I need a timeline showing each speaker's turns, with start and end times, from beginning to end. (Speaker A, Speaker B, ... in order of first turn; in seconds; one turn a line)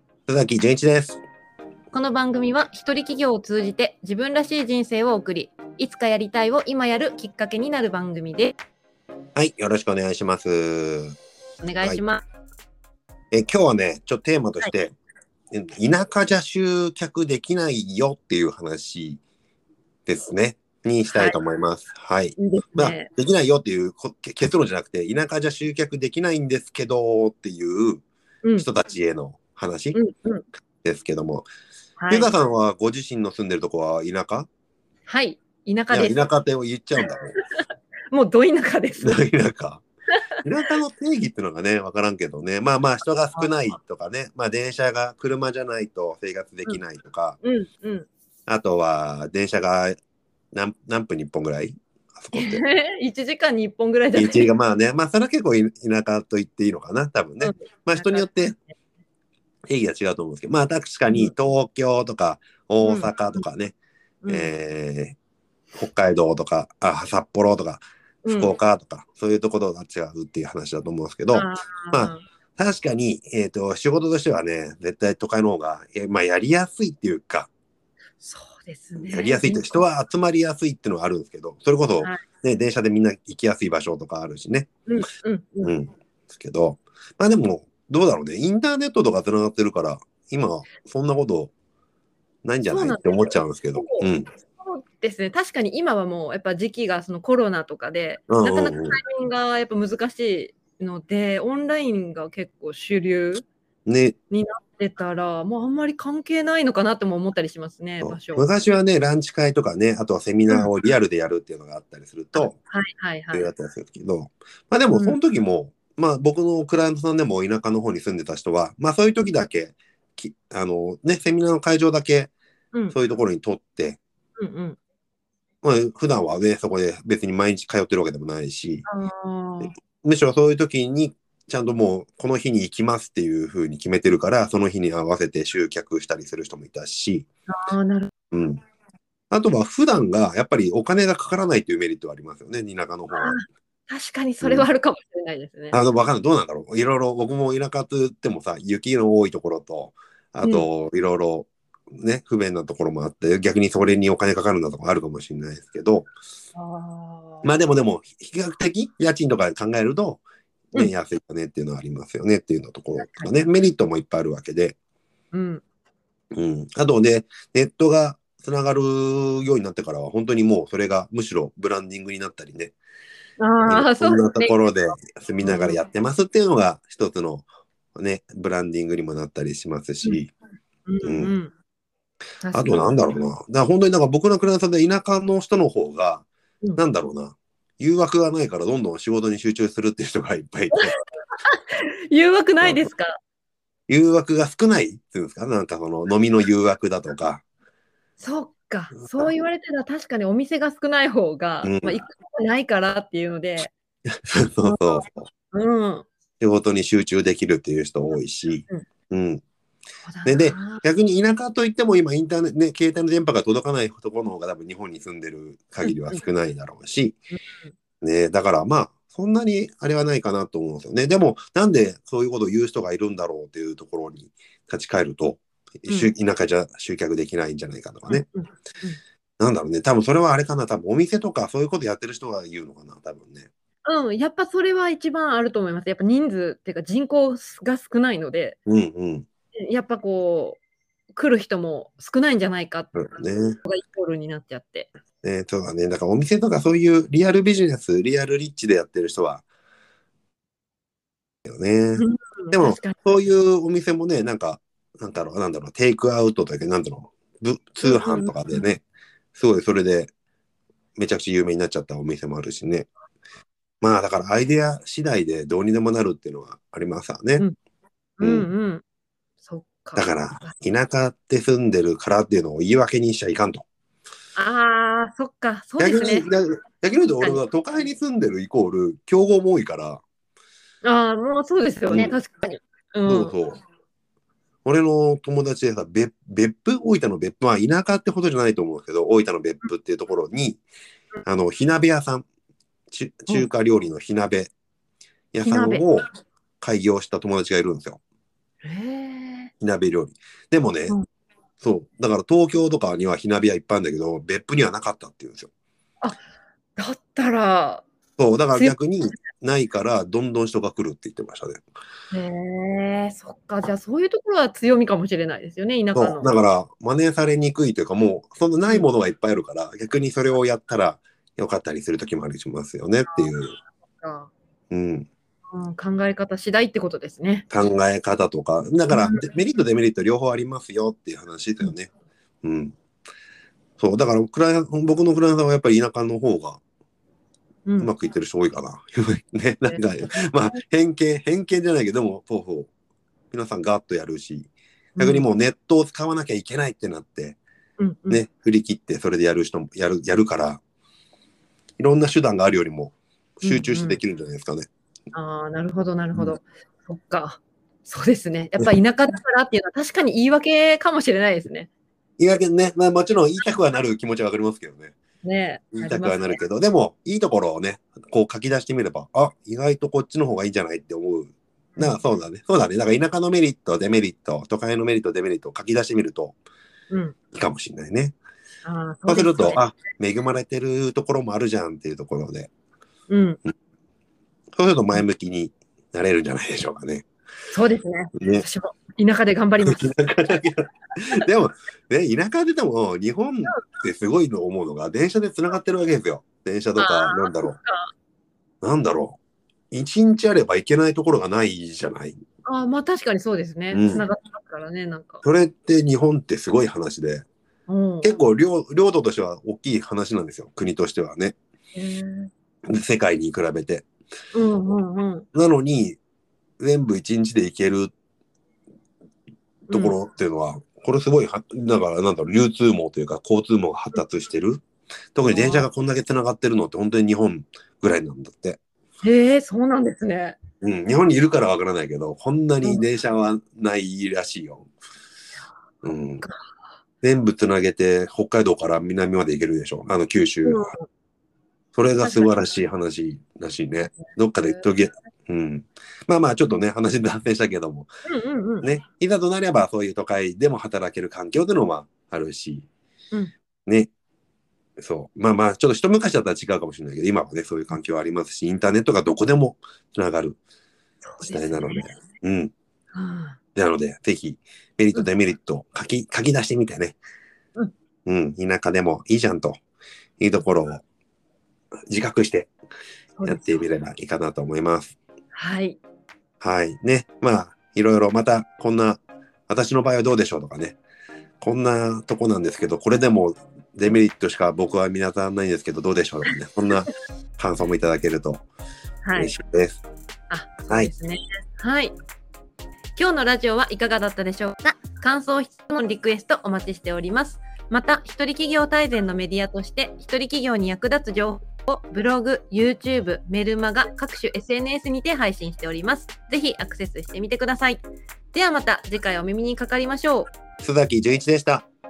Speaker A: 0.3-1.2
Speaker B: 1.9-8.6
Speaker A: 9.3-11.2
Speaker B: 11.6-12.2
Speaker A: 13.3-14.9
Speaker A: 15.5-19.2
Speaker A: 20.1-28.0
Speaker B: 21.1-21.4
Speaker B: 22.4-23.1
Speaker A: 28.6-30.0
Speaker B: 29.9-30.4
Speaker A: 30.8-31.5
Speaker B: 32.0-32.3
Speaker A: 32.1-34.5
Speaker B: 35.1-36.2
Speaker A: 35.9-37.4
Speaker B: 37.6-39.2
Speaker A: 39.0-39.9
Speaker A: 40.4-47.4
Speaker B: 43.4-43.8
Speaker B: 47.4-48.1
Speaker A: 48.5-50.0
Speaker A: 50.5-52.6
Speaker B: 52.3-54.5
Speaker A: 54.1-58.6
Speaker B: 57.4-58.8
Speaker A: 59.7-63.8
Speaker B: 62.8-63.4
Speaker B: 64.2-64.5
Speaker A: 64.3-65.2
Speaker A: 65.8-77.5
Speaker B: 68.2-68.6
Speaker B: 71.3-72.2
Speaker B: 78.2-79.8
Speaker A: 79.0-84.7
Speaker B: 84.9-85.8
Speaker A: 85.6-91.5
Speaker A: 92.4-94.3
Speaker B: 92.7-103.5
Speaker A: 98.3-99.0
Speaker A: 103.9-104.2
Speaker B: 104.3-108.5
Speaker A: 108.0-112.6
Speaker B: 112.3-113.5
Speaker A: 113.3-122.3
Speaker B: 114.9-115.2
Speaker A: 122.9-124.0
Speaker B: 124.4-124.8
Speaker A: 125.6-128.9
Speaker B: 128.9-129.7
Speaker A: 129.6-137.3
Speaker B: 137.5-138.1
Speaker A: 138.3-138.6
Speaker A: 139.3-143.4
Speaker B: 143.1-145.8
Speaker A: 144.4-144.7
Speaker A: 145.7-156.1
Speaker B: 156.6-157.5
Speaker A: 157.4-164.8
Speaker B: 163.0-163.4
Speaker B: 165.3-165.6
Speaker A: 166.3-172.8
Speaker B: 173.4-175.8
Speaker A: 173.7-180.3
Speaker B: 180.9-181.5
Speaker A: 181.0-181.4
Speaker B: 182.4-183.0
Speaker A: 182.5-190.9
Speaker B: 191.5-193.2
Speaker A: 192.6-192.9
Speaker A: 193.9-197.4
Speaker B: 198.2-203.7
Speaker A: 199.0-199.3
Speaker A: 201.6-202.0
Speaker A: 204.1-205.3
Speaker B: 204.6-206.1
Speaker A: 206.4-209.4
Speaker B: 210.1-210.8
Speaker A: 210.2-217.2
Speaker B: 215.8-216.2
Speaker B: 217.3-217.8
Speaker A: 218.0-228.3
Speaker B: 225.9-226.1
Speaker B: 228.1-229.0
Speaker A: 229.4-233.5
Speaker B: 233.8-238.6
Speaker A: 238.7-239.3
Speaker B: 239.6-240.6
Speaker B: 241.1-244.9
Speaker A: 242.9-243.6
Speaker A: 245.2-249.4
Speaker A: 251.5-258.8
Speaker B: 252.0-253.1
Speaker B: 257.8-258.6
Speaker A: 259.4-260.1
Speaker A: 261.0-262.9
Speaker A: 263.8-267.4
Speaker B: 268.2-268.8
Speaker A: 268.2-268.5
Speaker B: 269.4-270.5
Speaker A: 269.9-273.7
Speaker B: 274.4-276.3
Speaker A: 275.8-280.0
Speaker B: 280.8-283.4
Speaker A: 281.9-282.2
Speaker A: 283.1-283.6
Speaker A: 284.6-290.6
Speaker A: 291.2-292.3
Speaker A: 292.9-294.5
Speaker A: 295.3-296.1
Speaker B: 295.5-295.9
Speaker A: 296.6-298.0
Speaker B: 298.6-299.5
Speaker A: 299.6-301.0
Speaker A: 301.6-305.5
Speaker B: 306.8-307.9
Speaker A: 308.2-311.7
Speaker B: 312.1-316.4
Speaker A: 315.9-323.6
Speaker B: 323.1-324.3
Speaker A: 324.7-325.1
Speaker B: 325.5-327.5
Speaker A: 327.5-331.9
Speaker B: 328.9-329.2
Speaker A: 332.4-332.8
Speaker A: 333.8-336.6
Speaker B: 337.7-337.9
Speaker A: 337.8-342.7
Speaker B: 339.7-340.6
Speaker A: 343.3-347.4
Speaker B: 345.0-345.3
Speaker B: 347.8-348.2
Speaker A: 348.1-350.6
Speaker A: 351.8-354.7
Speaker B: 353.4-354.0
Speaker B: 355.1-361.7
Speaker A: 362.2-364.9
Speaker B: 365.2-366.4
Speaker A: 365.8-376.4
Speaker B: 371.8-372.1
Speaker B: 376.9-377.2
Speaker A: 377.3-378.2
Speaker B: 378.6-379.6
Speaker A: 379.1-382.5
Speaker B: 383.1-383.4
Speaker A: 384.6-387.1
Speaker B: 387.5-389.9
Speaker A: 388.2-388.4
Speaker A: 389.6-397.6
Speaker B: 396.8-397.9
Speaker A: 398.6-399.2
Speaker A: 399.7-402.2
Speaker B: 402.4-405.2
Speaker A: 403.7-404.1
Speaker A: 405.2-407.2
Speaker B: 407.7-408.1
Speaker A: 408.0-411.4
Speaker B: 411.8-412.3
Speaker A: 412.7-413.9
Speaker B: 414.3-415.3
Speaker A: 415.3-416.0
Speaker A: 416.6-417.9
Speaker A: 419.7-424.6
Speaker B: 419.7-420.0
Speaker A: 425.1-428.6
Speaker B: 425.3-425.7
Speaker B: 429.0-430.4
Speaker A: 430.6-434.7
Speaker A: 435.8-436.2
Speaker A: 437.0-440.6
Speaker B: 440.4-440.9
Speaker A: 441.8-447.9
Speaker B: 442.0-442.4
Speaker B: 444.0-444.7
Speaker B: 448.1-448.7
Speaker A: 448.6-452.7
Speaker A: 454.8-460.4
Speaker B: 461.0-461.9
Speaker A: 461.2-462.5
Speaker B: 462.9-463.4
Speaker A: 463.6-467.0
Speaker A: 468.1-469.6
Speaker A: 470.2-470.8
Speaker A: 471.9-472.5
Speaker B: 473.2-473.6
Speaker A: 473.2-475.0
Speaker B: 475.3-475.8
Speaker A: 476.4-480.8
Speaker A: 481.4-488.5
Speaker B: 489.0-489.3
Speaker A: 489.2-489.8
Speaker B: 490.3-491.9
Speaker B: 493.0-510.3
Speaker A: 510.6-511.7